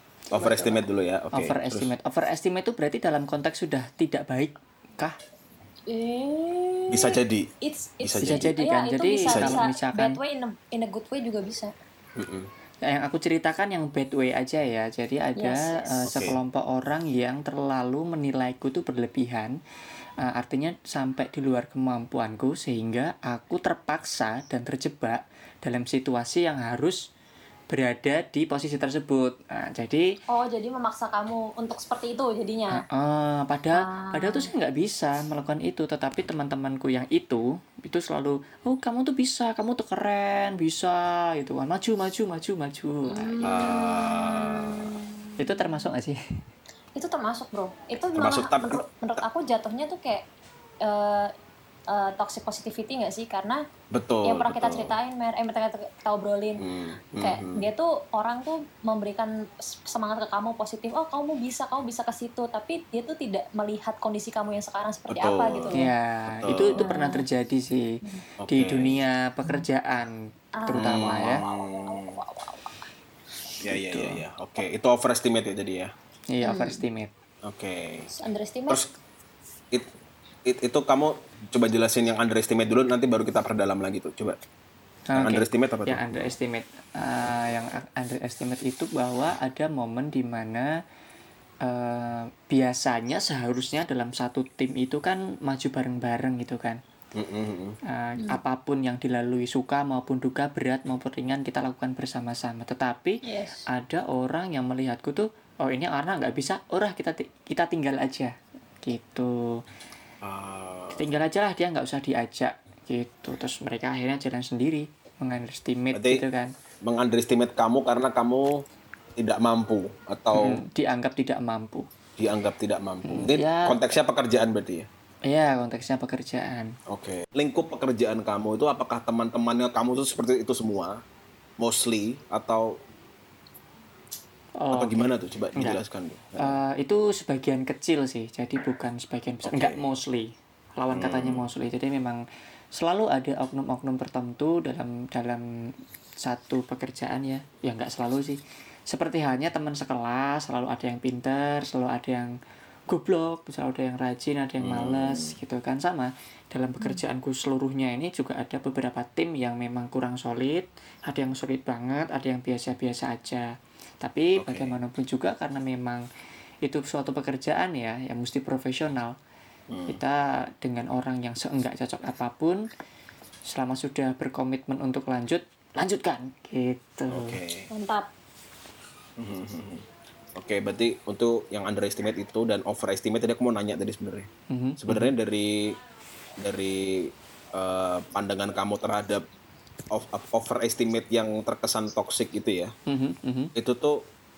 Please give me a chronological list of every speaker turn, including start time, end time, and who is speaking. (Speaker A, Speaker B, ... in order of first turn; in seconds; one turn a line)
Speaker A: 0.3-1.9
Speaker B: 0.4-0.8
Speaker C: 1.3-5.2
Speaker B: 5.9-11.7
Speaker A: 6.9-7.5
Speaker A: 8.0-8.5
Speaker C: 8.2-10.2
Speaker A: 9.2-9.6
Speaker A: 12.2-12.5
Speaker C: 12.8-19.6
Speaker B: 15.4-16.0
Speaker A: 16.0-16.4
Speaker C: 20.2-27.1
Speaker C: 27.7-30.2
Speaker B: 30.3-32.8
Speaker C: 32.7-43.5
Speaker B: 33.7-34.5
Speaker B: 43.0-45.6
Speaker A: 43.4-45.0
Speaker C: 45.4-46.2
Speaker B: 47.0-50.2
Speaker A: 48.1-49.2
Speaker B: 50.8-51.3
Speaker B: 51.9-53.6
Speaker A: 53.9-54.9
Speaker B: 54.2-65.9
Speaker A: 56.6-57.7
Speaker A: 65.1-66.9
Speaker C: 65.7-68.0
Speaker B: 66.8-67.2
Speaker A: 68.4-69.0
Speaker C: 68.5-71.4
Speaker B: 70.6-72.9
Speaker A: 70.7-72.2
Speaker A: 73.6-75.9
Speaker C: 73.7-74.2
Speaker C: 76.3-77.1
Speaker B: 76.4-76.8
Speaker A: 77.4-78.1
Speaker B: 78.1-78.8
Speaker A: 80.4-84.4
Speaker C: 85.1-90.7
Speaker A: 85.2-86.3
Speaker C: 91.6-96.8
Speaker A: 97.1-97.8
Speaker C: 97.9-109.6
Speaker B: 103.2-103.6
Speaker A: 110.2-111.1
Speaker C: 110.9-116.5
Speaker A: 115.9-116.2
Speaker A: 116.8-118.6
Speaker A: 119.2-120.6
Speaker C: 120.3-121.9
Speaker A: 122.2-124.9
Speaker C: 123.0-123.8
Speaker C: 125.3-126.7
Speaker A: 126.9-131.0
Speaker A: 131.6-132.8
Speaker C: 134.6-135.0
Speaker A: 134.7-136.6
Speaker C: 136.4-142.2
Speaker A: 139.4-139.9
Speaker A: 140.9-141.5
Speaker C: 142.7-152.4
Speaker C: 152.9-166.1
Speaker A: 154.6-155.4
Speaker A: 164.4-164.8
Speaker C: 166.6-169.1
Speaker A: 169.7-170.0
Speaker C: 169.9-172.7
Speaker C: 173.5-177.4
Speaker A: 177.1-177.7
Speaker B: 177.7-178.1
Speaker A: 179.2-184.3
Speaker C: 184.5-185.1
Speaker A: 184.8-185.8
Speaker A: 186.4-189.2
Speaker A: 189.9-192.7
Speaker C: 192.9-193.5
Speaker A: 193.6-194.1